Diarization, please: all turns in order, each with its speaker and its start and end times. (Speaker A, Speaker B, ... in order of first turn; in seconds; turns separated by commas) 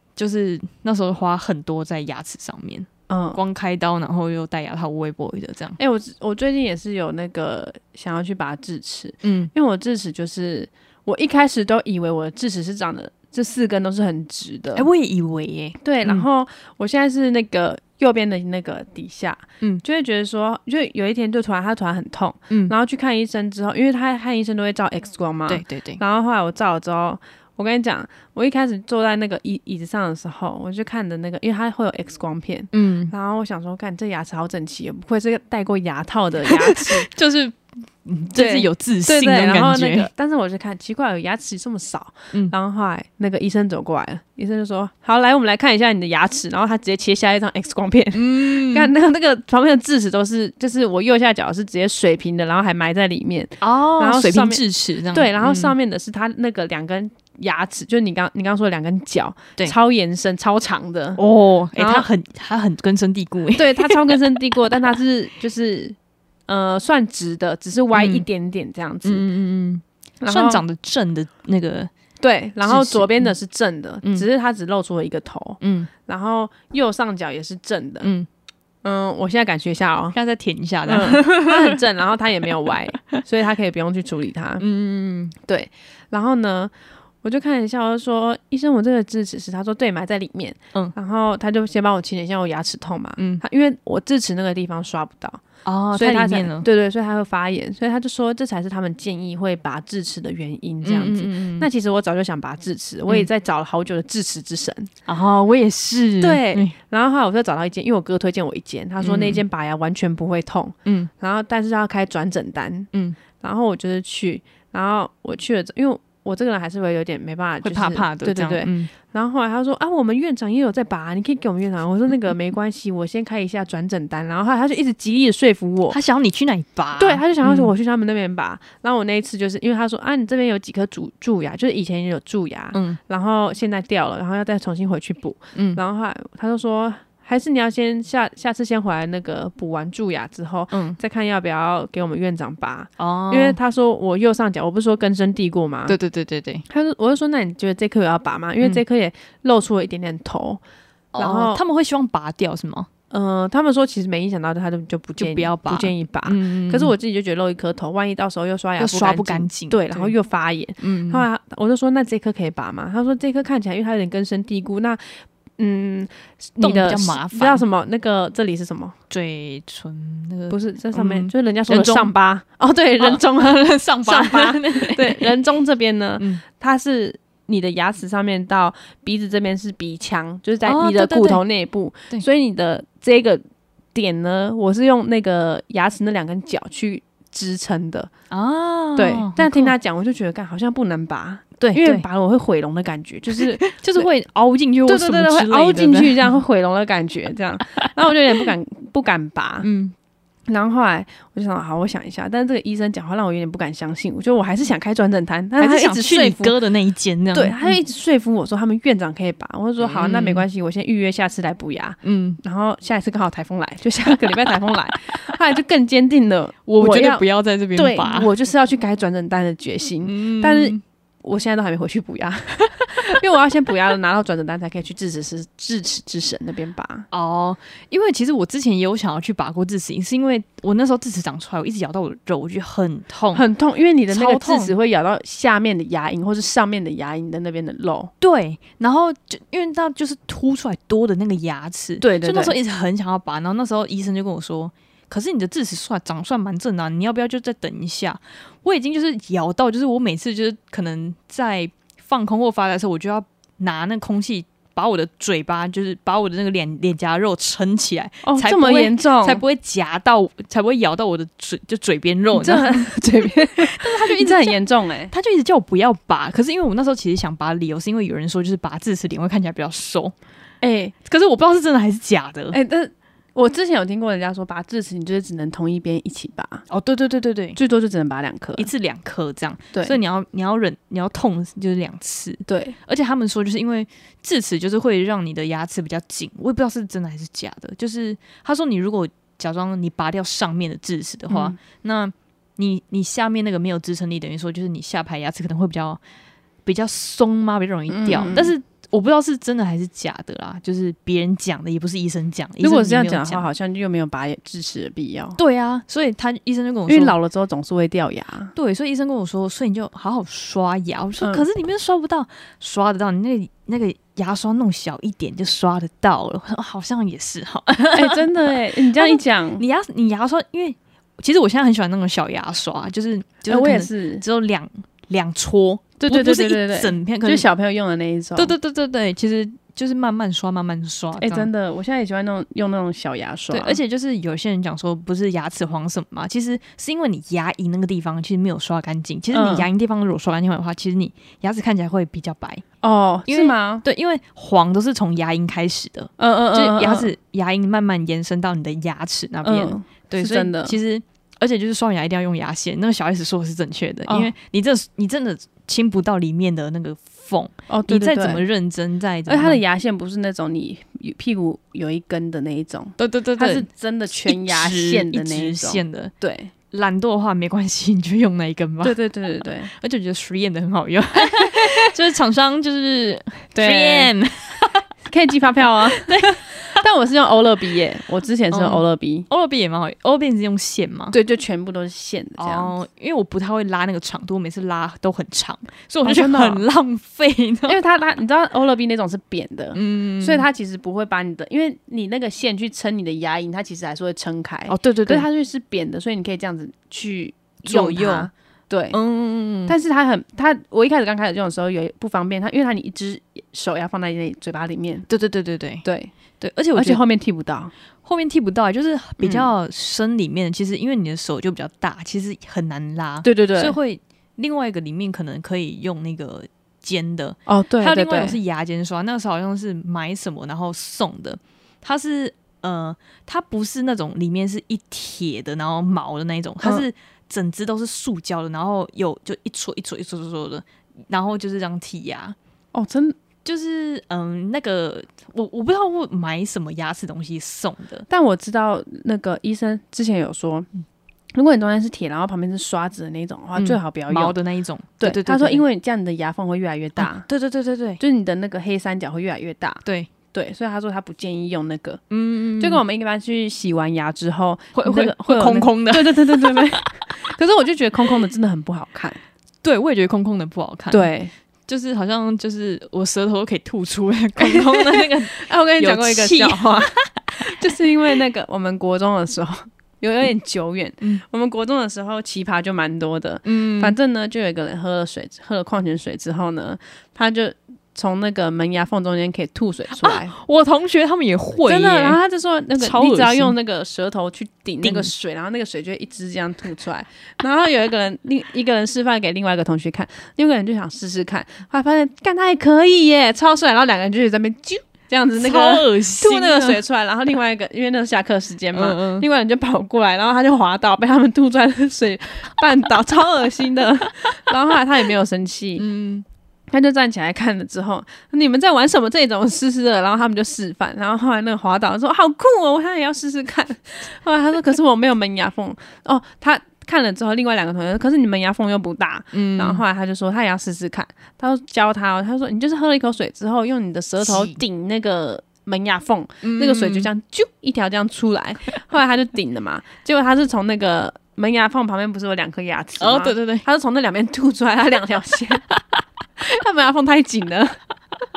Speaker A: 0.1-5.8, Speaker B: 3.1-3.4, Speaker B: 5.8-14.9, Speaker A: 9.2-9.5, Speaker A: 14.7-16.2, Speaker B: 15.8-37.1, Speaker A: 25.5-26.0, Speaker A: 32.7-33.1, Speaker A: 36.6-40.1, Speaker B: 38.3-61.2, Speaker A: 48.1-48.9, Speaker A: 53.6-55.7, Speaker A: 61.2-64.2, Speaker B: 61.7-62.1, Speaker B: 63.5-66.0, Speaker B: 66.5-69.2, Speaker A: 67.9-68.2, Speaker A: 69.0-71.9, Speaker B: 70.2-70.6, Speaker B: 72.2-78.1, Speaker A: 72.6-73.3, Speaker A: 75.6-75.9, Speaker A: 78.0-78.3, Speaker B: 78.8-80.2, Speaker A: 80.1-81.7, Speaker B: 80.8-84.6, Speaker A: 84.6-85.3, Speaker B: 85.4-104.9, Speaker A: 93.2-93.4, Speaker A: 95.6-96.7, Speaker A: 100.8-101.7, Speaker A: 105.0-106.7, Speaker B: 106.2-112.9, Speaker A: 109.0-109.4, Speaker A: 110.8-111.1, Speaker B: 113.4-126.0, Speaker A: 117.6-118.9, Speaker A: 125.9-127.7, Speaker B: 127.0-146.0, Speaker A: 135.5-135.8, Speaker A: 140.7-141.0, Speaker A: 143.0-143.6, Speaker A: 145.9-146.6, Speaker B: 146.7-150.6, Speaker A: 151.1-152.9, Speaker B: 151.2-151.6, Speaker B: 153.1-168.9, Speaker A: 155.2-156.9, Speaker A: 158.8-160.1, Speaker A: 160.8-161.2, Speaker A: 166.6-167.6, Speaker A: 169.1-172.1, Speaker B: 170.5-183.4, Speaker A: 173.0-175.4, Speaker A: 176.2-176.4, Speaker A: 180.6-181.4, Speaker B: 183.9-188.1, Speaker A: 188.3-189.7, Speaker B: 188.9-194.1, Speaker A: 191.6-192.0, Speaker A: 193.6-196.3, Speaker B: 194.8-199.7, Speaker A: 199.6-199.9, Speaker B: 200.5-206.6, Speaker A: 205.6-207.8, Speaker B: 207.3-217.2, Speaker A: 209.8-210.4, Speaker A: 212.0-212.4, Speaker A: 216.7-218.3, Speaker B: 217.8-227.1, Speaker A: 220.0-220.8, Speaker A: 227.1-233.4, Speaker B: 233.3-238.1, Speaker A: 234.1-234.7, Speaker A: 238.2-264.6, Speaker B: 242.0-242.6, Speaker B: 258.2-259.4, Speaker B: 262.3-265.1, Speaker A: 265.1-270.1, Speaker B: 270.6-270.9, Speaker A: 271.0-272.6, Speaker B: 272.5-276.6, Speaker A: 276.7-277.6, Speaker B: 277.6-278.7, Speaker A: 278.6-296.0, Speaker B: 282.5-282.8, Speaker B: 291.3-291.6, Speaker A: 296.6-303.5, Speaker B: 297.9-298.5, Speaker B: 302.6-305.4, Speaker A: 305.4-307.1, Speaker B: 306.9-308.5, Speaker A: 308.5-327.5, Speaker B: 311.2-311.4, Speaker B: 317.9-319.6, Speaker B: 323.4-324.2, Speaker B: 326.0-328.5, Speaker A: 328.4-331.5, Speaker B: 331.2-333.8, Speaker A: 333.5-342.6, Speaker B: 339.3-339.7, Speaker B: 342.8-343.8, Speaker A: 343.3-359.6, Speaker B: 346.2-347.1, Speaker B: 349.4-350.8, Speaker B: 354.1-354.3, Speaker B: 357.7-358.4, Speaker B: 359.3-366.5, Speaker A: 363.0-366.1, Speaker A: 366.7-368.9, Speaker B: 368.8-369.7, Speaker A: 369.7-374.8, Speaker B: 371.3-371.7, Speaker B: 373.5-374.1, Speaker B: 375.1-379.3, Speaker A: 375.8-376.8, Speaker A: 378.5-381.1, Speaker B: 381.1-382.7, Speaker A: 382.4-387.8, Speaker B: 386.0-386.6, Speaker B: 387.6-399.0, Speaker A: 389.7-390.4, Speaker A: 394.7-395.2, Speaker A: 397.6-398.3, Speaker A: 398.9-399.7, Speaker B: 399.6-405.1, Speaker A: 405.1-405.8, Speaker B: 405.8-406.1, Speaker A: 406.4-407.0, Speaker B: 406.7-407.7, Speaker A: 408.0-432.4, Speaker B: 409.2-409.5, Speaker B: 413.2-413.8, Speaker B: 417.5-418.4, Speaker B: 432.7-433.2, Speaker A: 433.4-438.1, Speaker B: 438.1-440.7, Speaker B: 441.3-444.3, Speaker A: 443.6-445.6, Speaker B: 445.0-447.3, Speaker A: 447.0-448.0, Speaker B: 448.0-452.0, Speaker A: 449.8-450.1, Speaker A: 452.1-452.8, Speaker B: 452.6-459.2, Speaker A: 454.7-456.7, Speaker A: 459.6-461.1, Speaker B: 460.9-461.3, Speaker A: 461.7-467.5, Speaker B: 464.4-480.3, Speaker A: 473.4-473.9, Speaker A: 479.9-482.2, Speaker B: 481.6-505.8, Speaker A: 482.8-483.5, Speaker A: 484.8-485.1, Speaker A: 495.4-496.8, Speaker A: 498.7-499.2, Speaker A: 505.8-506.2, Speaker B: 506.7-535.7, Speaker A: 519.3-519.8, Speaker A: 524.2-524.6, Speaker A: 526.4-527.1, Speaker A: 533.0-533.6, Speaker B: 536.4-537.8